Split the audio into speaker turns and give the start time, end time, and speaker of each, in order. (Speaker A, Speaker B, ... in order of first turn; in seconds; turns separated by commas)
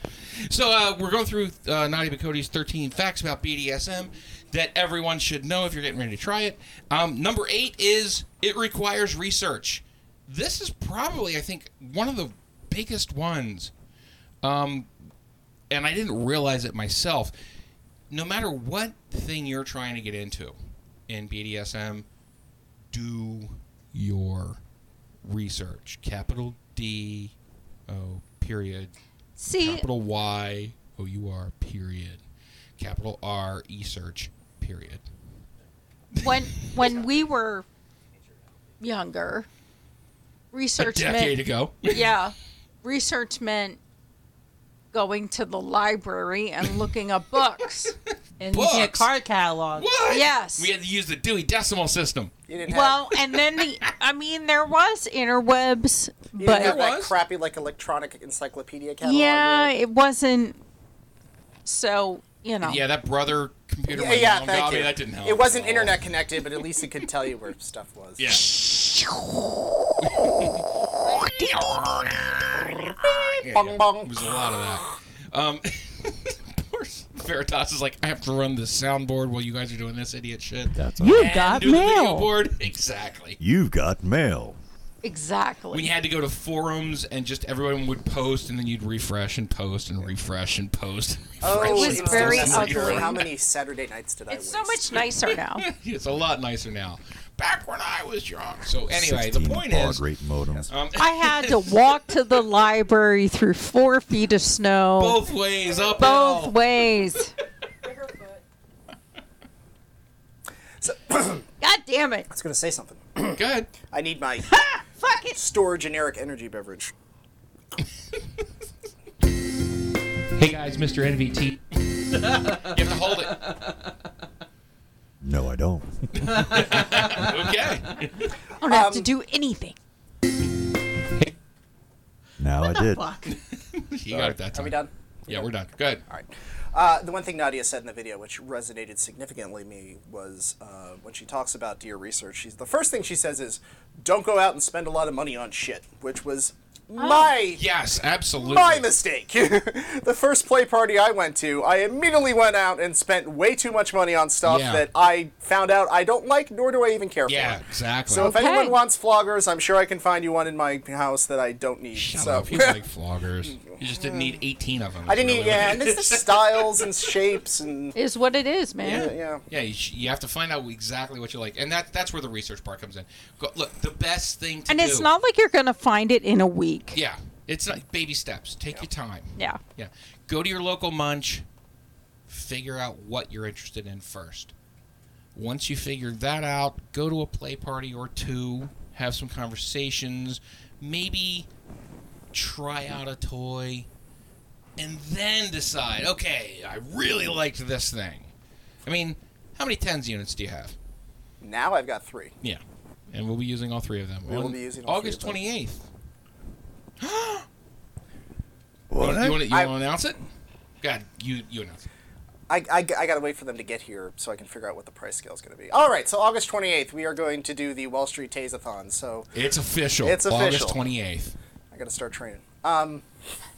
Speaker A: 0.4-13.7, Speaker A: 14.4-14.9, Speaker A: 15.7-17.3, Speaker A: 18.1-22.1, Speaker A: 22.9-24.6, Speaker A: 25.2-27.3, Speaker A: 27.9-28.9, Speaker B: 29.4-29.9, Speaker A: 29.6-32.2, Speaker A: 32.8-35.1, Speaker A: 36.1-36.8, Speaker B: 36.2-37.6, Speaker B: 38.8-39.5, Speaker B: 40.5-43.8, Speaker A: 40.8-42.1, Speaker B: 44.9-48.0, Speaker A: 48.1-49.1, Speaker C: 48.4-49.9, Speaker A: 49.7-52.3, Speaker B: 50.1-50.7, Speaker D: 52.5-53.0, Speaker B: 52.7-56.8, Speaker A: 53.3-53.6, Speaker D: 56.4-59.7, Speaker A: 56.4-57.1, Speaker B: 59.0-60.6, Speaker B: 61.6-62.8, Speaker A: 62.6-66.1, Speaker D: 63.9-68.4, Speaker A: 68.2-69.2, Speaker A: 70.0-83.4, Speaker B: 71.2-71.8, Speaker D: 73.0-74.6, Speaker E: 80.7-81.3, Speaker C: 81.0-82.3, Speaker E: 83.4-84.6, Speaker B: 85.0-85.9, Speaker A: 85.7-93.2, Speaker D: 91.4-95.1, Speaker B: 91.5-93.2, Speaker B: 94.3-95.7, Speaker A: 95.6-100.0, Speaker E: 98.9-100.7, Speaker A: 100.7-102.2, Speaker B: 101.0-105.3, Speaker A: 105.0-106.6, Speaker B: 106.0-107.3, Speaker D: 110.8-111.5, Speaker B: 111.6-112.3, Speaker D: 112.3-114.6, Speaker A: 113.3-113.7, Speaker B: 114.5-115.4, Speaker D: 115.3-116.9, Speaker A: 120.3-123.5, Speaker E: 125.2-127.3, Speaker A: 126.2-128.3, Speaker B: 128.6-129.8, Speaker D: 128.6-129.1, Speaker E: 132.4-133.2, Speaker C: 132.9-133.2, Speaker A: 133.2-136.0, Speaker E: 134.1-134.4, Speaker D: 134.5-135.5, Speaker D: 136.1-147.6, Speaker A: 147.5-148.9, Speaker D: 148.4-162.8, Speaker A: 154.4-154.9, Speaker A: 157.3-158.3, Speaker B: 158.1-158.8, Speaker A: 161.9-167.1, Speaker D: 163.4-164.3, Speaker D: 165.1-167.9, Speaker B: 167.9-169.1, Speaker D: 168.8-169.4, Speaker A: 169.5-175.1, Speaker B: 174.7-177.0, Speaker A: 176.9-181.4, Speaker A: 182.3-184.5, Speaker A: 185.3-191.5, Speaker A: 192.3-193.9, Speaker A: 194.8-198.3, Speaker A: 198.8-200.8, Speaker D: 201.4-202.3, Speaker A: 202.4-205.9, Speaker D: 204.2-205.4, Speaker A: 207.0-207.5, Speaker E: 208.9-209.5, Speaker A: 209.0-210.2, Speaker A: 210.8-211.9, Speaker D: 212.5-219.3, Speaker A: 219.3-221.3, Speaker D: 220.0-220.8, Speaker D: 221.7-223.1